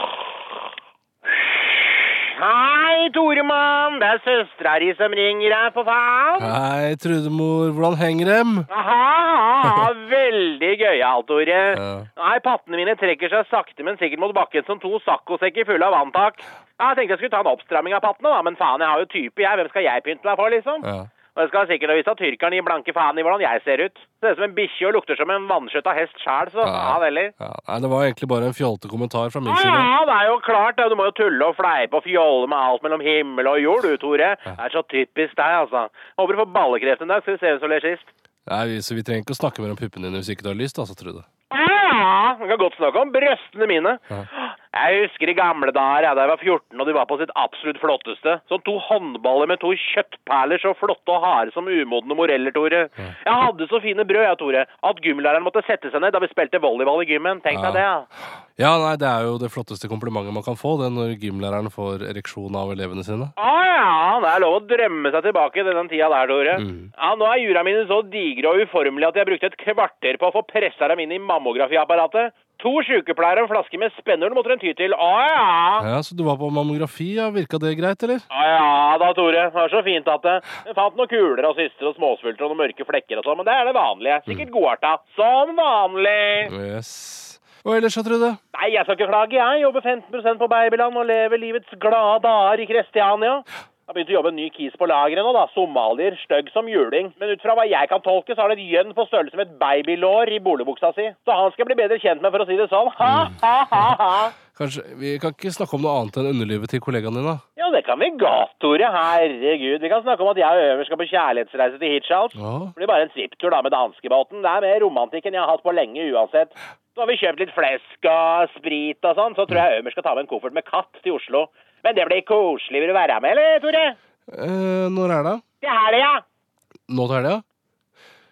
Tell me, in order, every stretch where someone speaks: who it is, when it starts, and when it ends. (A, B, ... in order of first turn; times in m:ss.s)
0:01.4-0:06.5 A
0:06.4-0:08.7 B
0:08.7-0:27.3 A
0:11.7-0:12.1 B
0:20.8-0:21.1 B
0:26.6-0:29.9 B
0:29.5-0:38.1 A
0:38.5-0:41.3 B
0:41.5-0:58.1 A
0:57.5-0:57.8 B
0:58.6-1:03.3 B
1:03.4-1:15.9 A
1:06.6-1:06.9 B
1:15.8-1:18.3 B
1:18.3-1:26.5 A
1:26.5-1:28.4 B
1:28.5-1:44.3 A
1:43.0-1:43.3 B
1:44.5-1:47.4 B
1:47.6-2:04.0 A
1:52.4-1:52.7 B
2:04.3-2:05.4 B
2:05.6-2:06.2 A
2:06.9-2:07.4 B